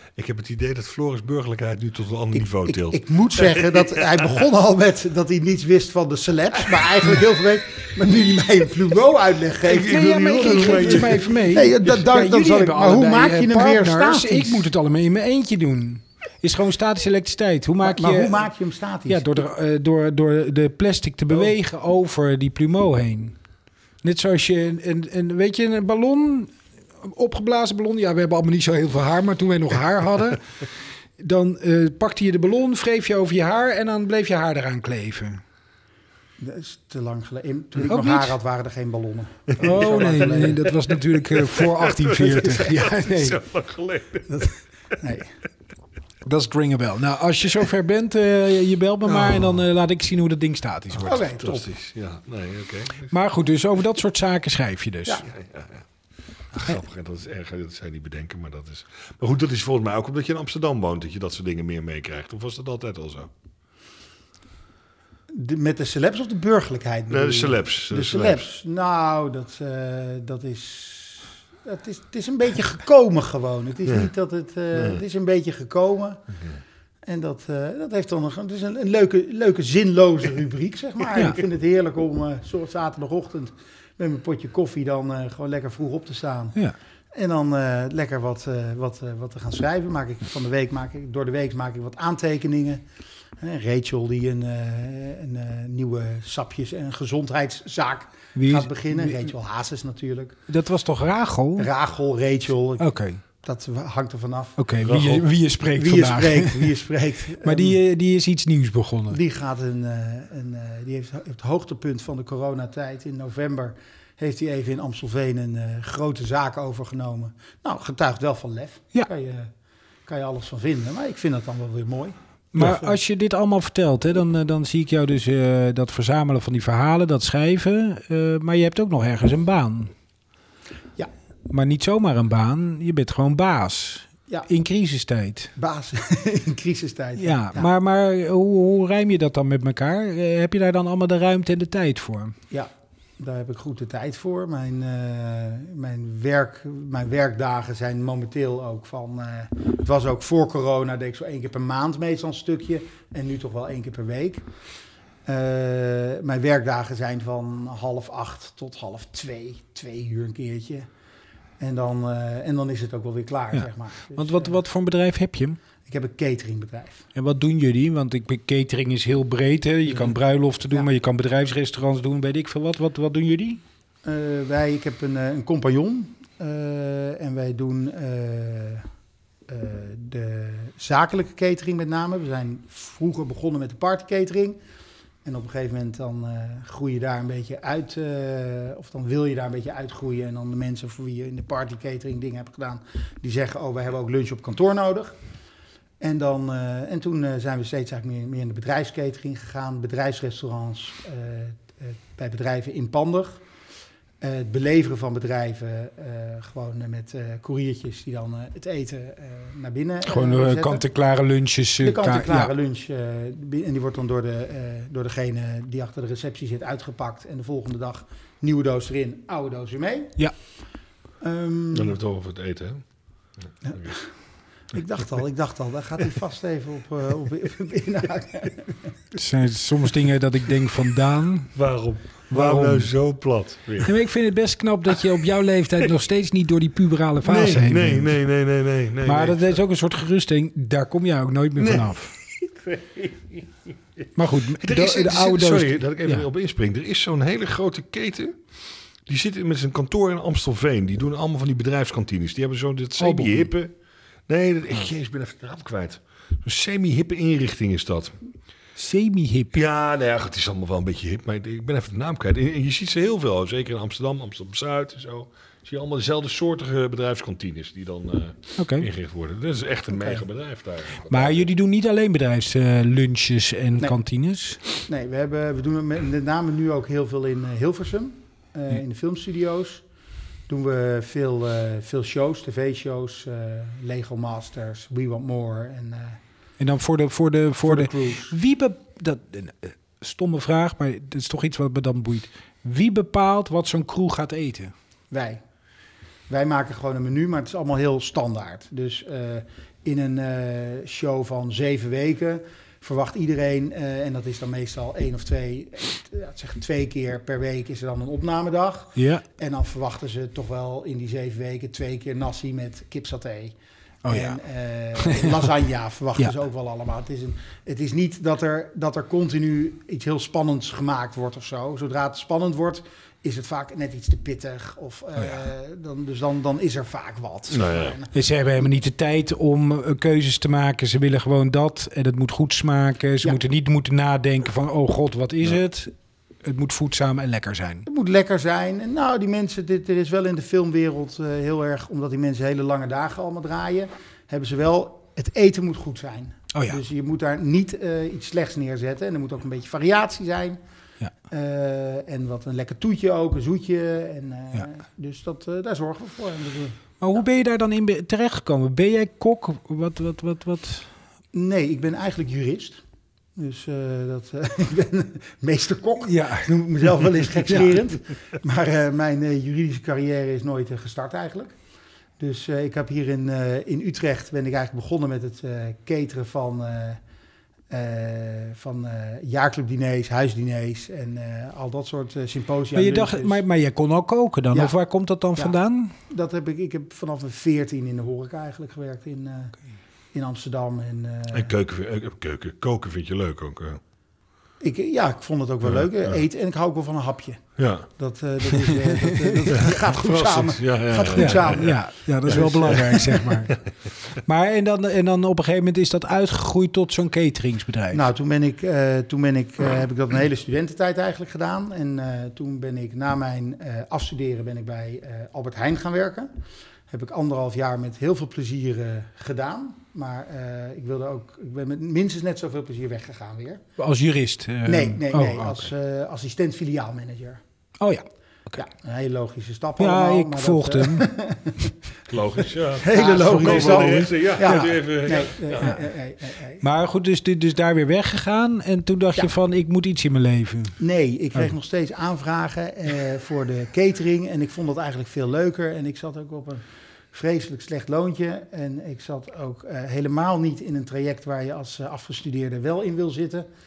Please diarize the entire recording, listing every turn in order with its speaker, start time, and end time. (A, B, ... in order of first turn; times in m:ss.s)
0:00.2-0:03.7 A
0:02.3-0:14.7 B
0:09.6-0:11.4 A
0:09.8-0:18.4 C
0:17.8-0:19.4 B
0:19.1-0:23.4 C
0:24.0-0:30.4 C
0:31.2-0:35.4 C
0:36.4-0:40.8 B
0:37.8-0:38.3 C
0:39.5-0:40.1 A
0:39.6-0:43.4 C
0:41.3-0:44.5 A
0:42.4-0:42.7 B
0:44.3-0:45.3 B
0:46.2-0:51.2 C
0:49.0-0:49.6 A
0:51.0-0:51.7 B
0:51.4-0:53.1 A
0:53.1-0:55.2 C
0:55.3-0:55.8 A
0:56.5-1:03.3 A
1:05.3-1:16.2 B
1:07.1-1:08.4 A
1:17.0-1:26.6 B
1:21.1-1:21.4 C
1:27.1-1:32.8 B
1:33.4-1:40.4 B
1:38.3-1:39.3 C
1:40.5-1:41.7 C
1:41.6-1:42.9 B
1:42.8-1:43.2 C
1:43.4-1:44.6 B
1:44.6-1:46.7 C
1:44.8-1:45.2 A
1:45.7-1:47.8 B
1:47.4-1:49.2 C
1:49.1-1:59.5 B
2:00.1-2:03.0 B
2:02.5-2:09.9 C
2:11.5-2:15.5 C
2:15.6-2:17.7 B
2:17.2-2:22.3 C
2:22.5-2:34.4 B
2:35.2-2:40.9 B
2:41.6-2:44.6 B
2:43.5-2:45.6 C
2:45.8-2:47.0 B
2:47.1-2:53.6 C
2:49.9-2:50.1 B
2:54.0-2:58.8 B
2:59.5-3:04.6 B
3:05.2-3:15.2 B
3:16.0-3:23.4 B
3:24.2-3:30.8 B
3:30.0-3:32.5 C
3:31.8-3:40.2 B
3:41.2-3:42.0 B
3:41.7-3:42.8 A
3:43.6-3:44.1 B
3:44.7-3:48.9 B
3:49.1-3:51.5 C
3:51.5-3:53.9 A
3:52.3-3:52.9 C
3:53.8-3:58.2 C
3:57.2-3:59.6 A
3:59.0-4:02.1 C
4:01.6-4:01.9 A
4:04.2-4:06.2 C
4:04.6-4:08.4 A
4:09.1-4:13.7 A
4:13.0-4:13.5 C
4:14.3-4:18.2 A
4:18.8-4:19.6 C
4:19.5-4:31.5 A
4:28.6-4:28.9 C
4:29.9-4:30.2 B
4:31.1-4:34.6 C
4:34.8-4:39.8 B
4:40.5-4:46.2 B
4:46.6-4:54.7 C
4:47.6-4:48.3 B
4:55.1-4:55.4 B
4:56.3-5:13.5 B
5:09.0-5:09.2 C
5:14.0-5:14.4 C
5:14.1-5:28.1 B
5:15.0-5:15.5 C
5:27.5-5:28.0 A
5:28.1-5:35.9 C
5:36.4-5:37.8 C
5:37.8-5:50.6 B
5:46.5-5:46.8 C
5:51.3-5:56.8 B
5:57.0-6:00.9 C
6:01.3-6:02.8 B
6:03.4-6:11.6 B
6:06.0-6:06.5 C
6:07.4-6:07.7 C
6:12.2-6:17.0 B
6:17.7-6:23.4 B
6:22.7-6:25.9 C
6:26.1-6:29.5 B
6:30.1-6:31.5 B
6:31.3-6:33.8 A
6:34.6-6:43.0 B
6:35.6-6:36.1 A
6:37.6-6:37.9 A
6:38.8-6:39.4 C
6:39.5-6:43.6 A
6:41.1-6:43.6 C
6:44.2-6:48.0 C
6:47.9-6:56.3 B
6:56.9-7:03.6 B
7:03.8-7:05.6 C
7:04.6-7:07.4 B
7:07.8-7:08.6 C
7:08.6-7:11.7 B
7:09.8-7:11.1 C
7:12.1-7:15.7 A
7:12.7-7:16.6 B
7:13.0-7:14.8 C
7:16.6-7:20.8 C
7:20.8-7:33.5 B